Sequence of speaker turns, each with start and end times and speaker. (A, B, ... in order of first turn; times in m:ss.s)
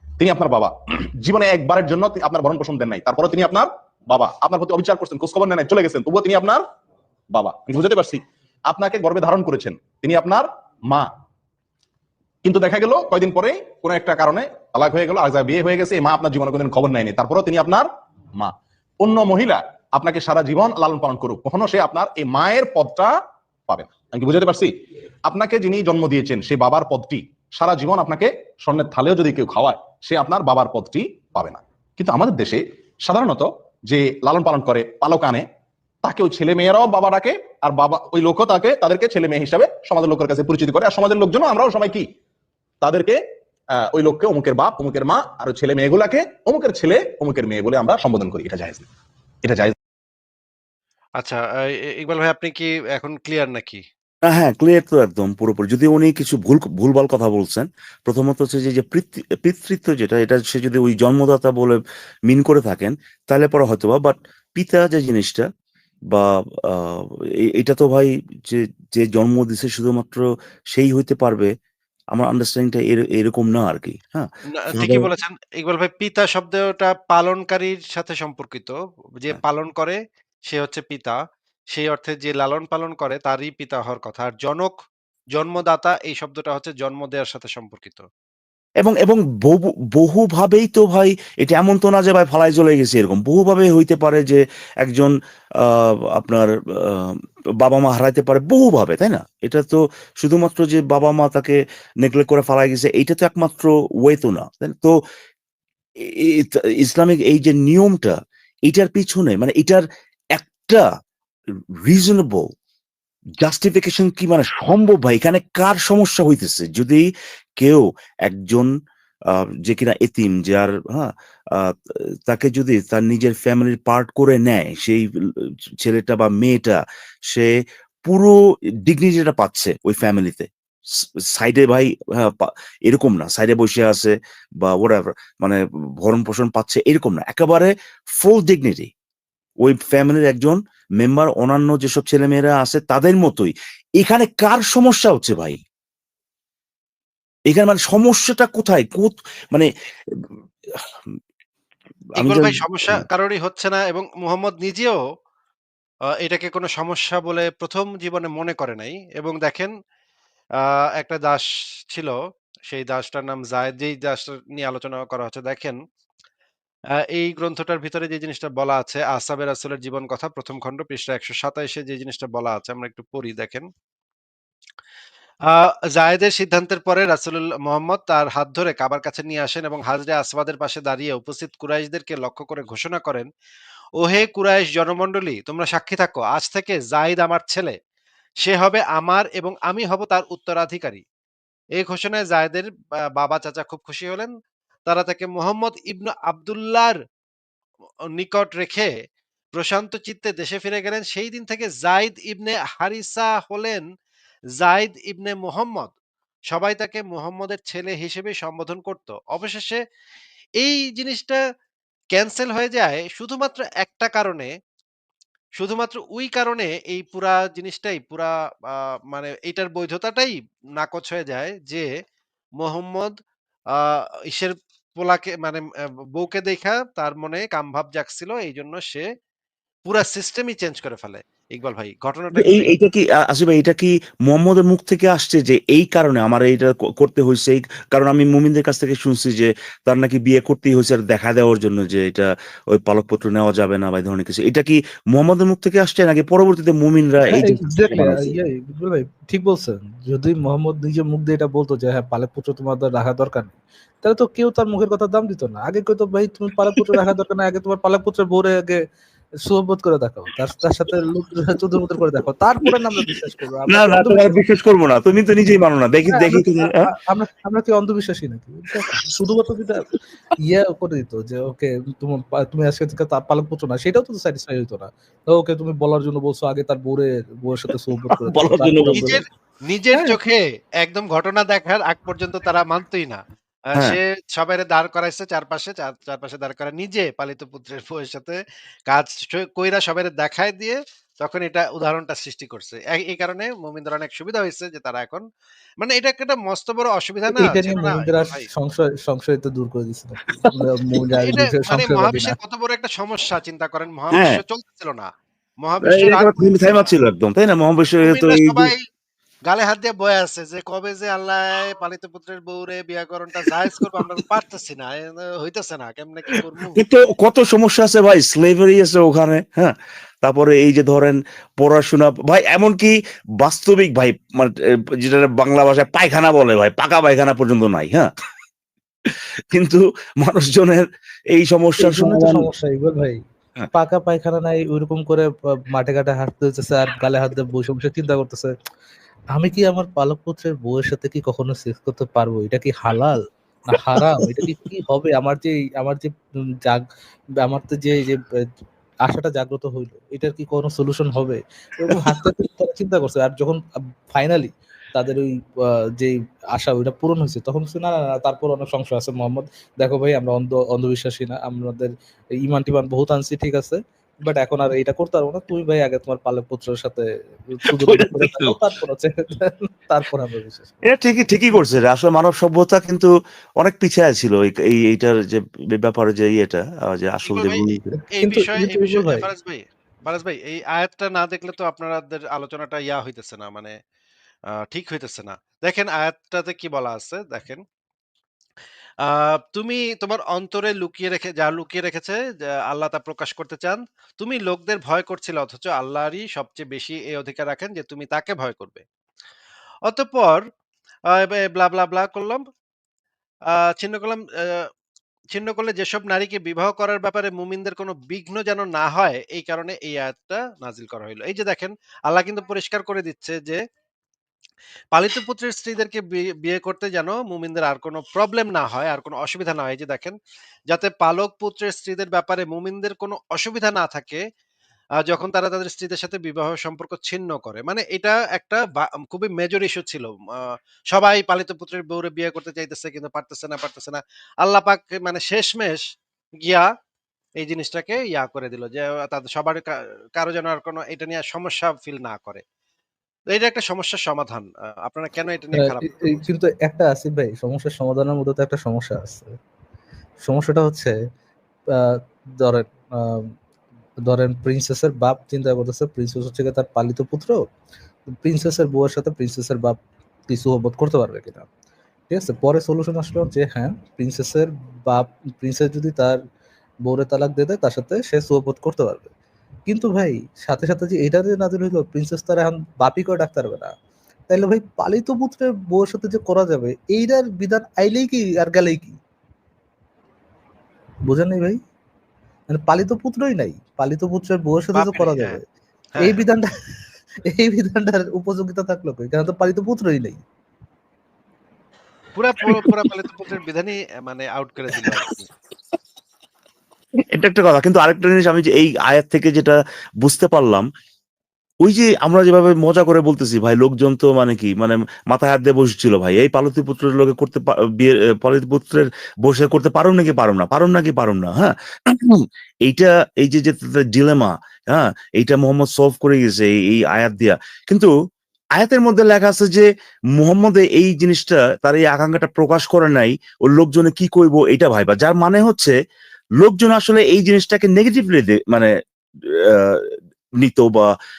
0:00.2-0:06.6 A
0:07.3-0:11.1 A
0:12.4-0:24.7 A
0:25.2-0:35.5 A
0:36.0-0:42.1 A
0:42.8-0:43.2 A
0:43.7-0:48.9 A
0:49.4-0:49.8 A
0:51.2-0:53.8 B
0:54.2-1:05.5 C
1:06.1-1:11.5 C
1:12.1-1:15.1 C
1:14.5-1:21.2 B
1:21.7-1:24.8 B
1:25.4-1:28.1 B
1:28.8-1:45.0 C
1:46.0-1:48.2 C
1:48.7-1:49.8 C
1:50.4-1:50.8 C
1:51.8-1:52.5 C
1:53.4-1:57.1 C
1:57.6-1:58.7 C
1:59.3-2:07.5 C
2:08.0-2:18.9 C
2:19.6-2:25.6 C
2:27.5-2:30.8 C
2:32.2-2:35.0 B
2:32.2-2:33.0 C
2:36.2-2:39.7 B
2:40.6-2:42.2 B
2:42.7-2:45.8 B
2:47.1-2:53.7 B
2:55.5-3:03.3 B
3:04.0-3:07.8 B
3:08.4-3:11.0 B
3:11.8-3:14.3 B
3:14.9-3:17.0 B
3:18.1-3:18.9 B
3:19.6-3:23.9 B
3:24.6-3:25.9 B
3:26.5-3:29.8 B
3:30.6-3:31.4 B
3:32.2-3:34.5 B
3:35.6-3:41.9 B
3:42.6-3:43.2 B
3:43.7-3:49.1 B
3:49.9-3:52.7 B
3:52.4-4:08.4 C
4:07.3-4:18.8 D
4:16.8-4:17.0 C
4:19.4-4:24.4 D
4:22.7-4:23.1 C
4:23.7-4:26.8 C
4:26.1-4:29.9 D
4:30.4-4:39.2 D
4:38.0-4:39.2 C
4:39.0-4:43.2 B
4:43.7-4:55.3 B
4:55.8-4:58.5 B
4:57.3-5:02.4 D
5:00.4-5:01.0 C
5:01.2-5:05.1 B
5:04.1-5:04.4 C
5:05.6-5:06.9 B
5:05.8-5:08.7 C
5:08.0-5:08.8 B
5:09.5-5:16.8 B
5:13.5-5:13.8 C
5:16.8-5:28.1 C
5:29.1-5:32.5 C
5:31.8-5:33.2 D
5:33.7-5:38.5 D
5:39.3-5:46.1 D
5:43.8-5:44.4 C
5:47.4-5:48.2 D
5:49.1-5:53.6 D
5:51.9-5:52.2 C
5:54.1-6:10.8 D
6:07.7-6:08.6 C
6:10.8-6:18.0 C
6:17.2-6:23.8 B
6:18.2-6:19.3 D
6:24.6-6:27.6 B
6:29.0-6:38.8 B
6:39.9-6:40.5 B
6:41.1-6:42.4 B
6:43.5-6:44.7 B
6:45.3-6:53.6 B
6:54.9-7:00.2 B
7:00.7-7:04.2 B
7:05.0-7:15.8 B
7:16.4-7:16.7 B
7:17.4-7:22.4 B
7:23.3-7:26.2 B
7:25.6-7:29.3 D
7:30.2-7:31.0 D
7:31.7-7:33.3 D
7:34.0-7:37.4 D
7:38.2-7:41.5 D
7:42.1-7:46.2 D
7:46.8-7:49.1 D
7:49.7-7:53.7 D
7:54.3-7:59.0 D
8:01.1-8:01.6 D
8:02.5-8:05.4 D
8:04.8-8:05.4 B
8:06.0-8:06.2 B
8:06.0-8:06.5 D
8:07.3-8:10.2 D
8:12.2-8:15.3 B
8:12.4-8:12.7 C
8:17.1-8:20.7 C
8:21.6-8:37.9 C
8:38.6-8:45.7 C
8:46.4-8:48.7 C
8:49.3-8:51.0 C